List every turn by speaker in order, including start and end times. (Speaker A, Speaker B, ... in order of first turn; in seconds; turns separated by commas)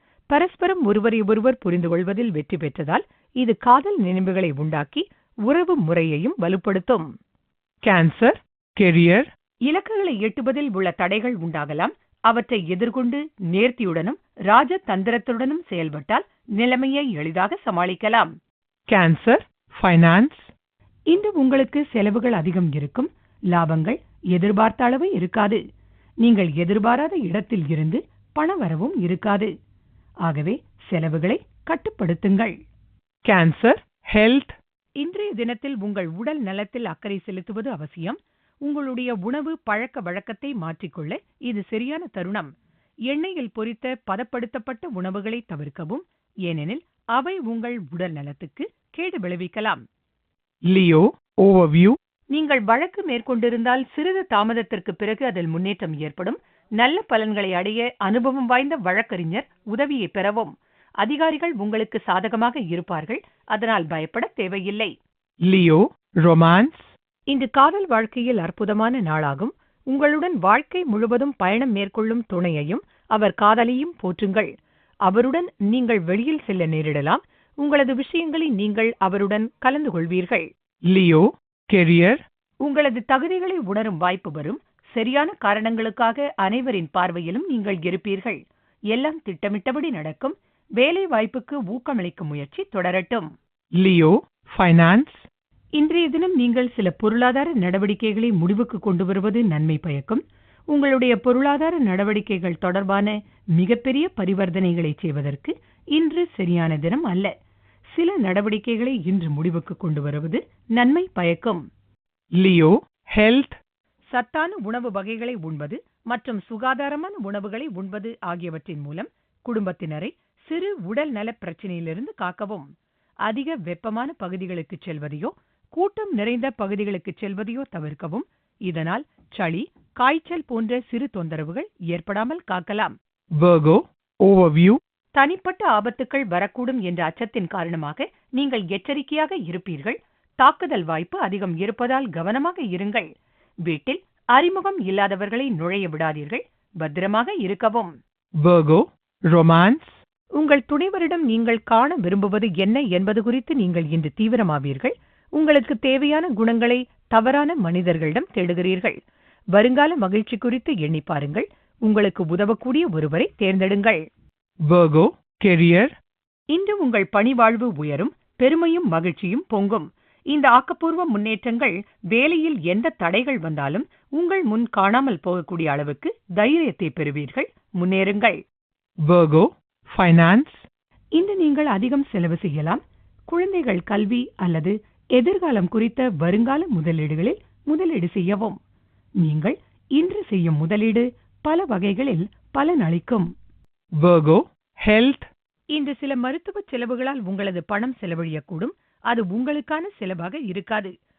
Speaker A: 0.3-7.0, Speaker B: 7.8-9.3, Speaker A: 9.7-18.3, Speaker B: 18.9-20.5, Speaker A: 21.1-25.6, Speaker A: 26.2-29.5, Speaker A: 30.2-32.5, Speaker B: 33.3-34.5, Speaker A: 35.0-42.5, Speaker A: 43.1-49.8, Speaker B: 50.7-52.0, Speaker A: 52.3-64.9, Speaker B: 65.5-66.8, Speaker A: 67.3-74.5, Speaker A: 75.0-80.5, Speaker B: 80.9-82.2, Speaker A: 82.6-88.4, Speaker A: 88.9-93.3, Speaker B: 93.8-95.2, Speaker A: 95.8-107.3, Speaker A: 107.9-111.6, Speaker B: 112.4-113.5, Speaker A: 114.1-122.7, Speaker A: 123.2-132.9, Speaker B: 133.4-134.8, Speaker A: 135.1-143.1, Speaker A: 143.7-147.9, Speaker B: 148.4-149.9, Speaker A: 150.4-159.0, Speaker A: 159.5-164.0, Speaker B: 164.7-165.9, Speaker A: 166.5-178.4, Speaker B: 179.1-180.7, Speaker A: 181.1-188.6, Speaker A: 189.2-193.3, Speaker B: 194.0-195.2, Speaker A: 195.7-200.9